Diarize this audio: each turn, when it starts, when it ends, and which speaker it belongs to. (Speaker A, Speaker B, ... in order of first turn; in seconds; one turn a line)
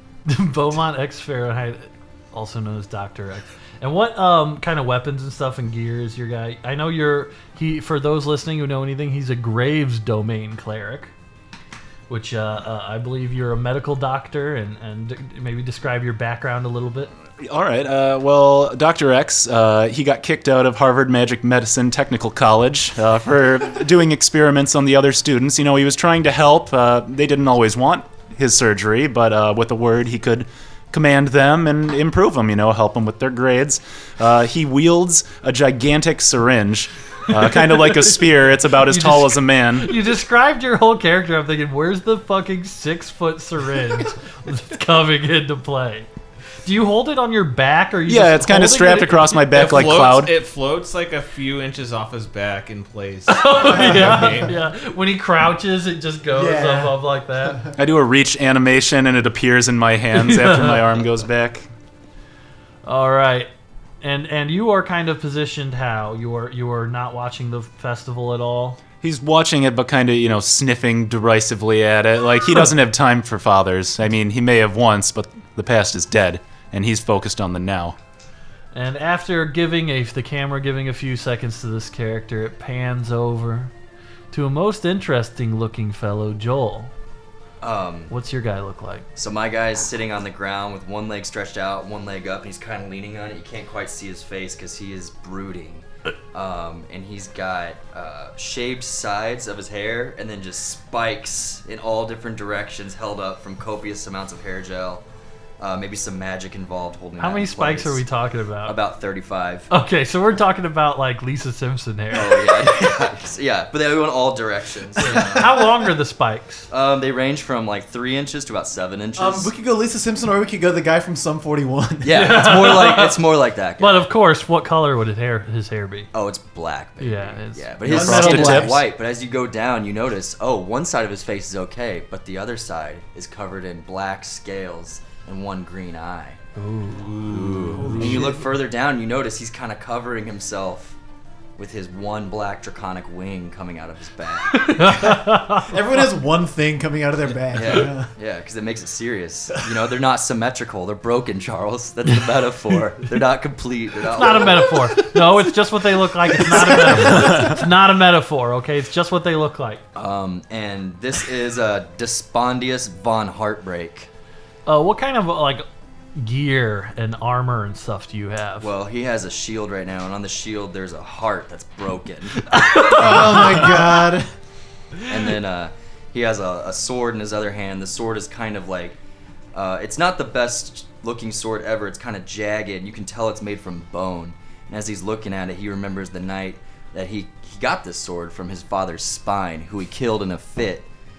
Speaker A: 0.3-11.1
Speaker A: 12.1-17.1
Speaker B: 17.4-40.0
Speaker A: 37.7-38.0
Speaker A: 38.8-46.1
Speaker A: 46.6-49.8
Speaker B: 48.1-50.3
Speaker C: 49.5-54.5
Speaker A: 53.3-57.6
Speaker D: 53.9-54.5
Speaker D: 56.3-57.0
Speaker B: 57.8-61.7
Speaker A: 60.1-60.9
Speaker A: 62.9-63.5
Speaker A: 64.0-68.8
Speaker B: 69.0-78.0
Speaker A: 78.7-83.7
Speaker A: 84.3-86.9
Speaker E: 87.6-88.1
Speaker A: 88.1-89.1
Speaker E: 89.2-105.0
Speaker E: 105.6-108.0
Speaker A: 107.2-108.8
Speaker E: 108.7-109.7
Speaker A: 109.7-112.7
Speaker E: 112.1-115.7
Speaker A: 115.0-116.7
Speaker E: 116.7-119.5
Speaker D: 119.2-122.5
Speaker E: 122.0-124.1
Speaker A: 122.1-123.2
Speaker A: 123.8-126.1
Speaker E: 126.1-136.4
Speaker A: 127.0-128.6
Speaker D: 127.8-128.8
Speaker B: 127.9-128.8
Speaker A: 136.6-137.2
Speaker C: 137.1-138.3
Speaker E: 137.3-141.0
Speaker D: 137.8-138.5
Speaker E: 141.6-144.7
Speaker A: 144.5-145.8
Speaker D: 144.8-148.1
Speaker E: 147.5-154.9
Speaker A: 154.2-159.8
Speaker D: 156.4-157.1
Speaker B: 157.2-157.5
Speaker E: 159.9-164.1
Speaker A: 164.7-168.7
Speaker E: 168.6-173.5
Speaker A: 172.4-173.9
Speaker D: 172.8-174.3
Speaker E: 175.1-179.0
Speaker E: 179.5-190.9